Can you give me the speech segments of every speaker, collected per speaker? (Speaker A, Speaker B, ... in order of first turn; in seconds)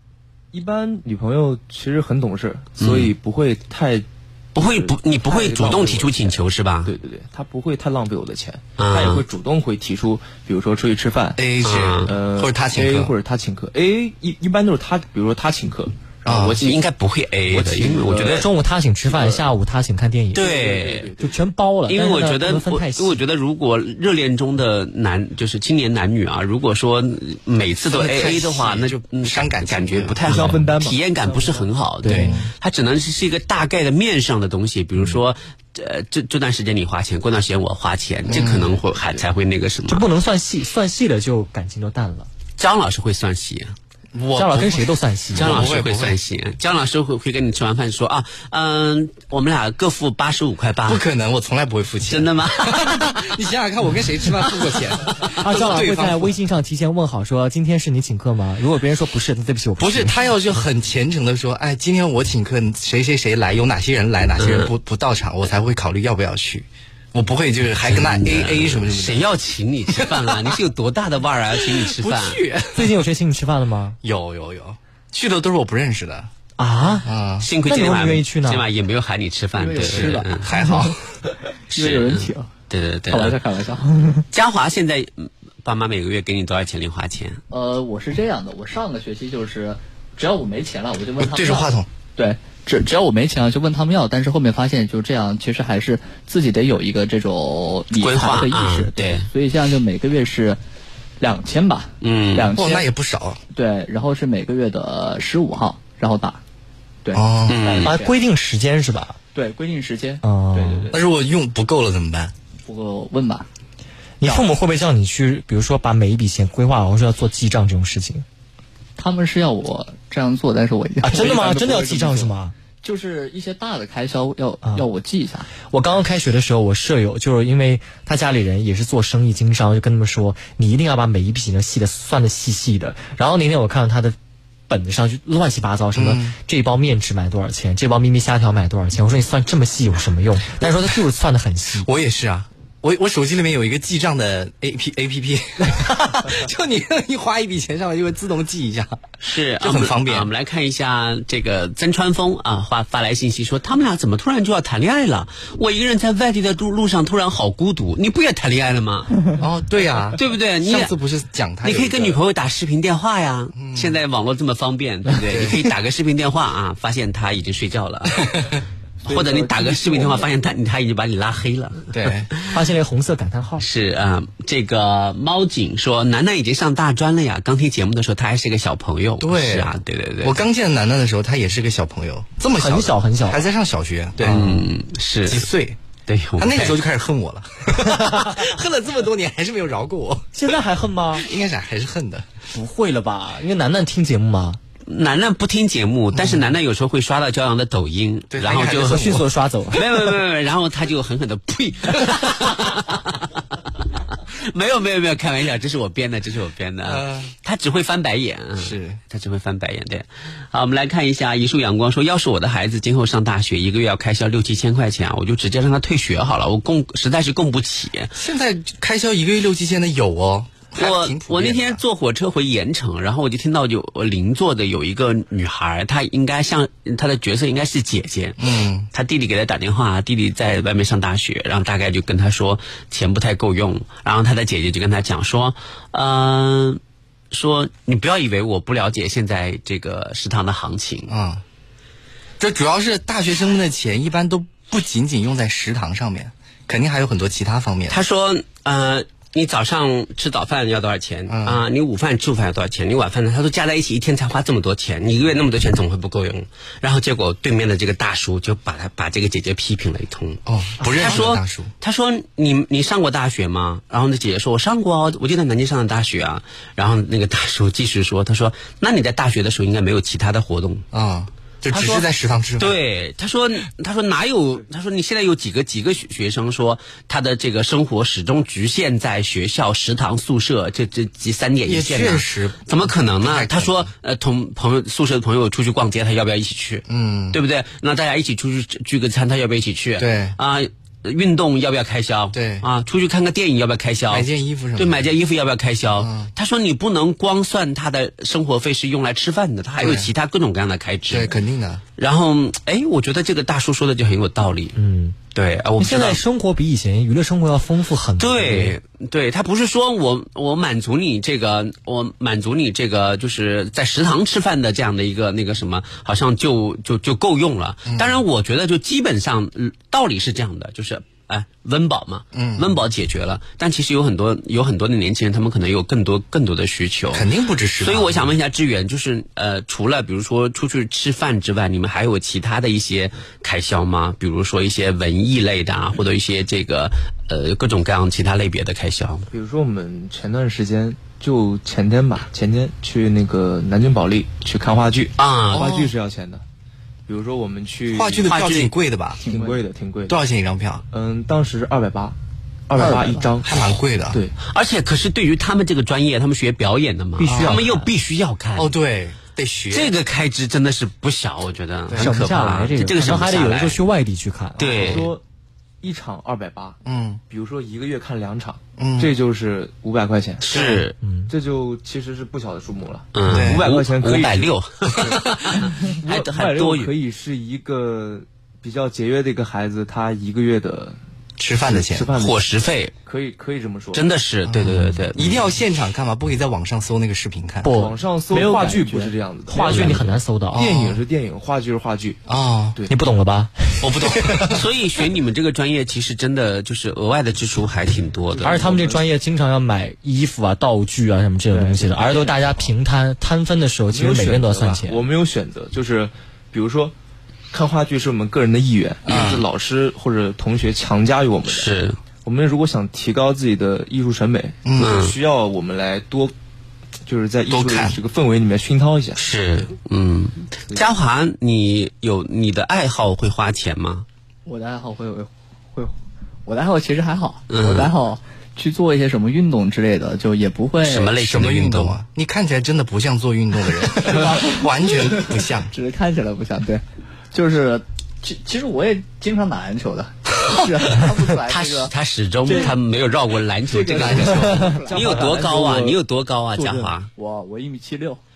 Speaker A: 0.5-11.4, 12.1-16.8, 17.5-18.5, 19.0-19.5, 20.3-21.4, 30.2-31.7, 38.3-39.2, 169.0-170.3, 339.3-346.4, 347.1-348.3, 349.2-350.2, 350.9-352.2, 352.7-353.6, 364.6-365.2, 365.8-366.8, 367.3-370.7, 371.3-381.0, 381.6-382.4, 383.0-384.0, 387.7-392.2, 398.3-399.1, 401.5-402.7, 403.9-406.9, 407.5-416.3, 417.1-419.2, 443.9-446.0, 446.5-446.9
Speaker B: 2.8-3.1, 4.5-6.9, 8.8-9.2, 11.6-12.1, 16.6-18.5, 20.3-21.1, 21.9-40.0, 42.6-43.7, 45.4-51.0, 52.1-53.4, 54.4-54.9, 64.4-64.7, 67.8-72.4, 77.4-80.5, 81.7-83.4, 84.3-87.4, 98.0-99.3, 102.0-102.5, 107.5-107.9, 149.2-159.1, 160.2-160.9, 161.6-172.5, 173.6-180.4, 184.2-185.5, 186.1-186.8, 194.9-199.2, 199.7-203.5, 204.1-218.1, 220.8-236.8, 237.3-241.1, 247.9-270.8, 271.7-272.1, 272.6-301.4, 302.0-304.7, 305.3-306.2, 308.2-327.3, 327.8-339.3, 345.2-345.9, 348.2-348.7, 354.4-358.7, 359.7-363.8, 364.6-365.1, 370.4-370.9, 373.1-376.9, 382.2-382.9, 383.9-385.5, 393.8-398.6, 411.5-412.0, 414.8-415.1, 419.2-424.1, 427.5-427.9, 430.9-432.0, 441.5-447.1
Speaker C: 11.4-13.1, 16.2-16.6, 27.9-30.2, 32.1-32.5, 38.3-38.7, 44.1-46.2, 50.9-56.4, 59.8-69.3, 69.9-70.6, 71.5-73.0, 74.0-76.3, 77.0-77.5, 79.8-81.0, 91.2-91.9, 102.5-103.4, 107.1-107.6, 110.9-112.3, 135.9-136.3, 141.8-149.0, 149.6-150.3, 159.4-162.2, 163.6-164.0, 165.3-165.6, 171.9-172.3, 179.2-179.7, 180.2-184.7, 185.2-185.8, 186.4-190.5, 191.1-192.3, 196.1-196.5, 198.3-199.3, 206.8-207.3, 208.6-209.0, 218.2-221.8, 228.4-228.9, 241.1-241.4, 242.4-248.0, 251.3-251.6, 260.5-261.7, 270.9-272.8, 281.7-283.9, 286.9-287.4, 290.0-290.4, 292.3-292.6, 294.1-295.1, 296.0-296.3, 299.8-300.1, 301.1-301.8, 317.9-318.2, 322.3-322.8, 327.1-328.3, 347.9-349.2, 350.1-350.8, 353.4-354.2, 357.2-357.6, 358.6-359.9, 361.9-362.2, 366.8-367.2, 368.8-369.1, 370.5-370.8, 373.3-373.7, 381.4-382.1, 384.5-387.7, 390.5-391.0, 392.3-392.8, 393.8-394.6, 409.1-409.4, 414.6-415.0, 417.5-418.0, 431.2-435.7, 443.9-444.5
Speaker D: 18.2-20.6, 21.2-23.2, 32.0-32.4, 39.9-42.3, 44.4-45.7, 55.4-60.2, 72.7-74.0, 76.6-77.1, 77.6-78.6, 107.8-109.2, 110.2-110.9, 114.2-118.2, 121.0-122.5, 125.6-134.2, 134.7-141.9, 172.5-173.7, 182.6-183.5, 190.3-191.3, 192.5-194.6, 198.8-199.8, 304.8-305.2, 305.8-308.7, 357.2-357.9, 362.0-365.0, 371.0-371.3, 387.6-390.7, 392.9-394.5, 398.4-405.0
Speaker E: 79.5-80.9, 81.7-82.5, 83.1-84.2, 87.5-100.6, 101.2-102.9, 103.5-106.4, 107.0-108.1, 109.3-111.0, 112.7-113.5, 119.0-122.3, 122.8-125.5, 349.2-349.6, 352.8-353.3, 388.3-389.1, 424.4-425.9, 426.4-431.1, 433.9-442.7, 443.7-445.3, 447.1-448.2